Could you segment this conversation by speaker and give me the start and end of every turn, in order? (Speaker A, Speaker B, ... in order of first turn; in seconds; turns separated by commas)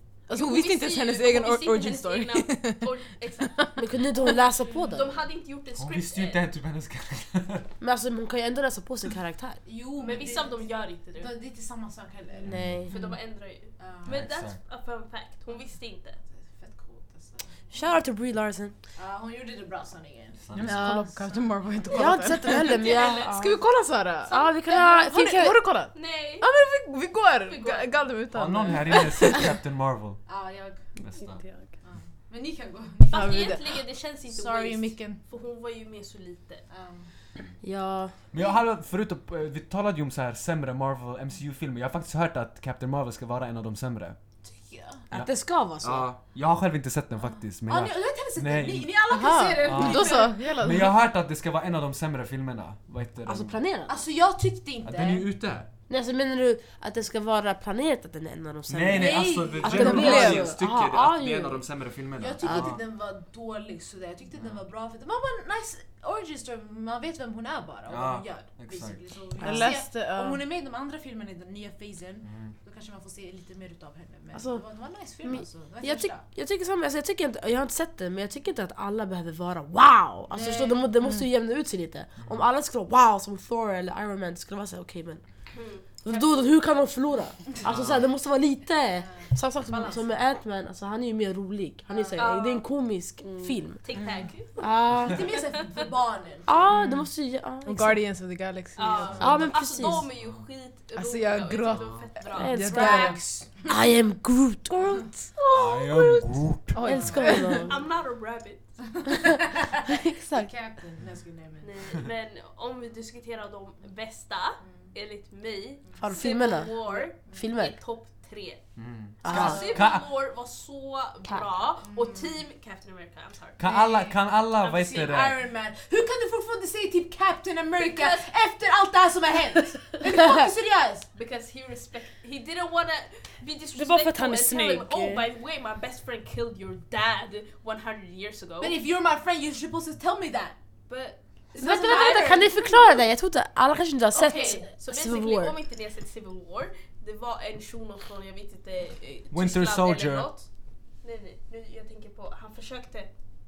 Speaker A: 0.3-3.8, Speaker B: 0.3-6.4, Speaker C: 3.8-5.1, Speaker D: 4.6-5.1, Speaker E: 5.8-7.7, Speaker C: 7.8-9.6, Speaker D: 9.6-13.0, Speaker B: 10.0-11.3, Speaker C: 12.4-12.9, Speaker E: 12.5-12.9, Speaker B: 12.9-16.2, Speaker D: 13.8-14.2, Speaker E: 14.1-14.6, Speaker D: 16.2-17.6, Speaker C: 17.7-18.7, Speaker D: 18.9-22.0, Speaker E: 20.4-20.8, Speaker A: 20.5-29.5, Speaker C: 20.7-21.1, Speaker C: 21.9-23.6, Speaker B: 22.6-23.3, Speaker C: 24.3-25.6, Speaker B: 25.9-26.5, Speaker B: 27.4-27.9, Speaker E: 28.3-30.2, Speaker D: 30.3-30.9, Speaker E: 31.0-31.4, Speaker F: 31.1-31.7, Speaker D: 31.8-33.5, Speaker B: 33.1-36.6, Speaker A: 33.1-33.6, Speaker D: 34.3-35.2, Speaker D: 36.7-37.1, Speaker C: 37.6-38.1, Speaker E: 38.3-44.2, Speaker D: 44.4-45.0, Speaker C: 45.1-46.1, Speaker E: 45.1-48.9, Speaker D: 47.7-50.5, Speaker A: 49.1-50.9, Speaker E: 49.6-53.5, Speaker C: 53.2-54.0, Speaker D: 53.9-55.2, Speaker E: 54.8-55.7, Speaker C: 55.9-61.6, Speaker E: 58.7-62.8, Speaker D: 58.9-60.3, Speaker A: 59.6-60.5, Speaker D: 62.2-76.2, Speaker C: 62.4-62.7, Speaker E: 64.3-64.6, Speaker E: 67.9-69.0, Speaker A: 69.4-70.4, Speaker C: 69.4-69.7, Speaker E: 72.2-72.5, Speaker C: 74.3-74.6, Speaker C: 75.2-85.2, Speaker D: 80.3-80.9, Speaker E: 82.2-82.4, Speaker B: 85.5-86.5, Speaker C: 85.9-93.8, Speaker E: 87.6-88.0, Speaker D: 89.1-90.1, Speaker D: 91.9-92.3, Speaker B: 92.2-92.7, Speaker F: 93.2-93.6, Speaker B: 93.8-94.7, Speaker A: 93.9-94.2, Speaker C: 94.6-95.3, Speaker D: 95.0-96.6, Speaker C: 96.5-98.0, Speaker A: 96.7-97.1, Speaker A: 97.6-99.2, Speaker B: 98.8-103.2, Speaker D: 98.8-99.5, Speaker C: 99.2-100.1, Speaker A: 100.9-103.3, Speaker E: 101.7-102.1, Speaker C: 102.4-106.2, Speaker D: 102.7-103.6, Speaker E: 105.5-106.8, Speaker A: 106.7-107.7, Speaker C: 106.8-107.7, Speaker B: 107.6-108.7, Speaker D: 108.9-111.7, Speaker C: 109.9-110.5, Speaker B: 111.6-118.6, Speaker D: 114.6-114.9, Speaker D: 115.8-116.2, Speaker C: 116.0-117.8, Speaker D: 116.7-117.5, Speaker E: 118.8-120.1, Speaker C: 119.2-119.8, Speaker B: 119.2-123.6, Speaker D: 119.4-119.7, Speaker D: 121.8-122.4, Speaker E: 123.6-125.4, Speaker D: 123.6-124.2, Speaker B: 124.6-125.1, Speaker D: 124.9-131.1, Speaker B: 127.8-128.3, Speaker B: 131.1-138.8, Speaker F: 133.7-135.3, Speaker D: 138.6-140.6, Speaker B: 140.9-142.5, Speaker D: 141.5-143.0, Speaker C: 141.6-145.5, Speaker D: 144.1-144.7, Speaker B: 144.3-150.5, Speaker E: 149.3-150.3, Speaker B: 151.0-153.1